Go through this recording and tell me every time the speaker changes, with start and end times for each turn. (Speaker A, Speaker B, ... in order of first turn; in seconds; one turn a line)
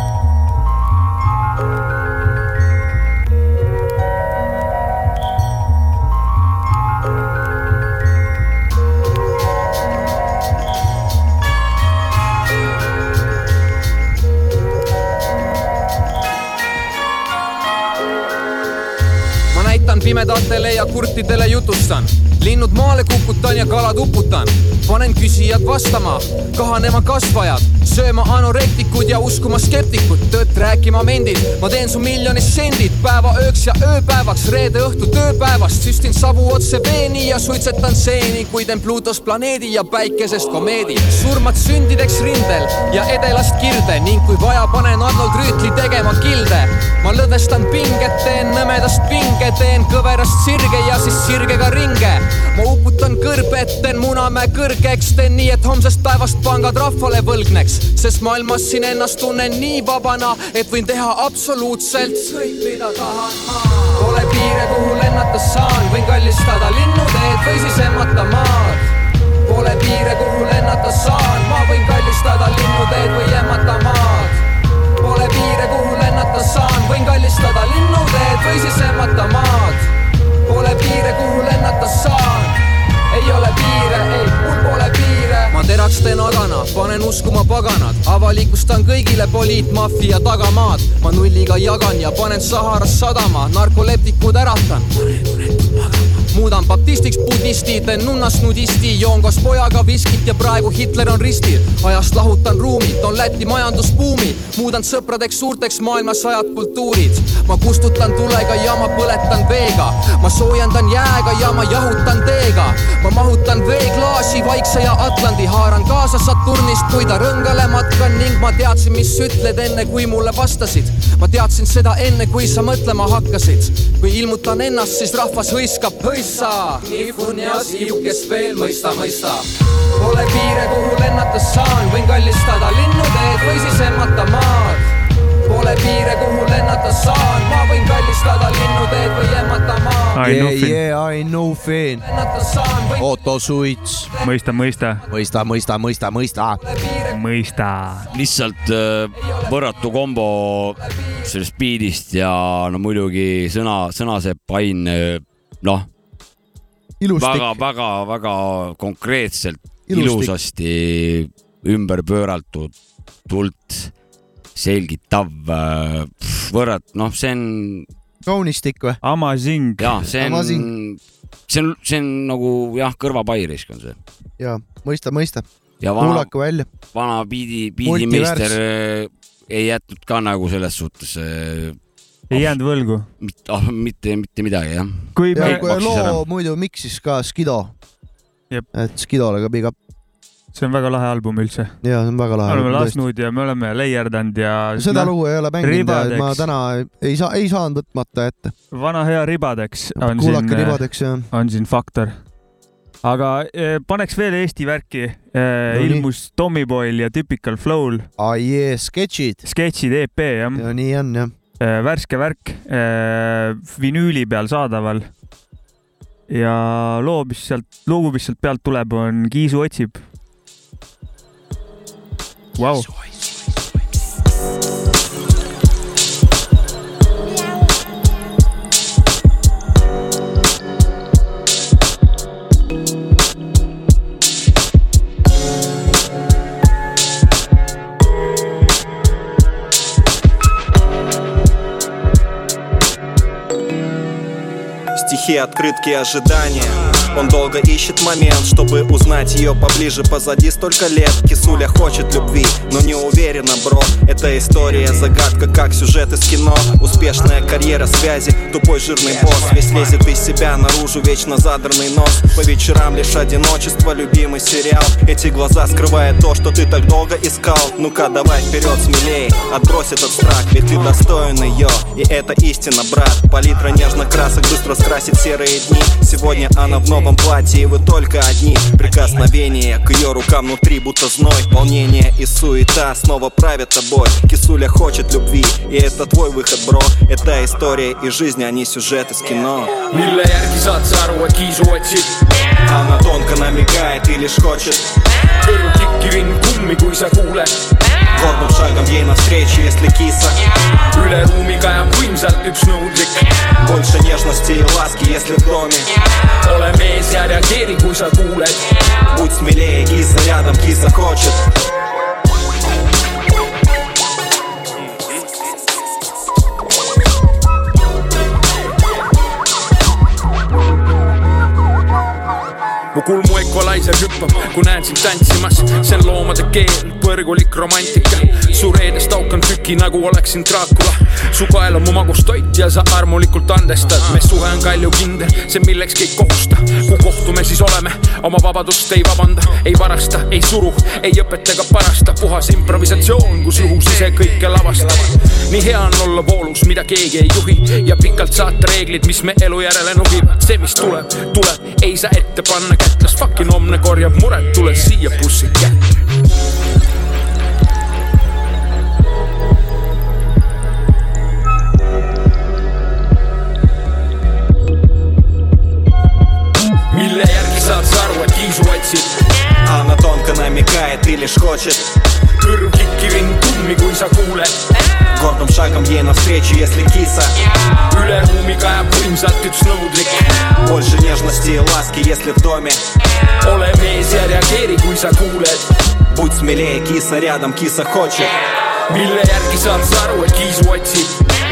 Speaker A: 19.5-68.9
Speaker A: 69.4-74.4
Speaker A: 75.0-79.9
Speaker A: 80.5-82.6
Speaker A: 83.1-94.9
Speaker A: 96.3-129.4
Speaker A: 129.9-134.8
Speaker A: 135.4-140.2
Speaker B: 140.1-140.8
Speaker C: 140.2-142.0
Speaker A: 142.0-143.1
Speaker C: 143.0-144.1
Speaker B: 144.2-145.0
Speaker C: 145.1-146.6
Speaker A: 146.6-147.2
Speaker B: 147.1-148.1
Speaker D: 148.1-155.9
Speaker A: 149.2-149.8
Speaker C: 157.0-157.6
Speaker D: 157.2-162.7
Speaker C: 159.9-160.3
Speaker D: 163.3-163.9
Speaker D: 164.6-167.9
Speaker C: 168.2-169.0
Speaker B: 169.0-169.9
Speaker D: 169.8-174.0
Speaker C: 170.1-170.7
Speaker C: 174.4-175.4
Speaker D: 175.8-176.3
Speaker C: 176.0-176.7
Speaker D: 176.9-181.8
Speaker C: 177.8-178.6
Speaker B: 182.3-183.1
Speaker D: 182.3-182.6
Speaker D: 183.2-186.2
Speaker B: 185.2-185.7
Speaker C: 185.3-187.7
Speaker C: 188.7-189.7
Speaker B: 190.5-191.8
Speaker C: 191.8-193.0
Speaker B: 192.5-196.4
Speaker C: 194.8-198.5
Speaker B: 198.7-202.2
Speaker C: 199.9-201.3
Speaker B: 203.0-208.1
Speaker C: 205.7-206.1
Speaker C: 208.2-209.4
Speaker B: 209.4-210.6
Speaker C: 210.5-211.3
Speaker B: 211.6-215.1
Speaker B: 216.3-220.0
Speaker B: 222.6-222.9
Speaker E: 244.9-289.7
Speaker F: 289.9-292.2
Speaker E: 292.6-294.9
Speaker F: 295.4-297.6
Speaker E: 298.1-300.4
Speaker F: 300.8-303.5
Speaker E: 303.6-305.9
Speaker F: 306.4-308.9
Speaker E: 309.1-311.4
Speaker F: 322.9-355.9
Speaker F: 366.9-369.2
Speaker E: 369.6-371.9
Speaker F: 372.4-374.6
Speaker E: 375.1-377.3
Speaker F: 377.7-380.6
Speaker E: 380.6-382.8
Speaker F: 383.4-385.7
Speaker E: 386.1-388.3
Speaker F: 388.8-391.2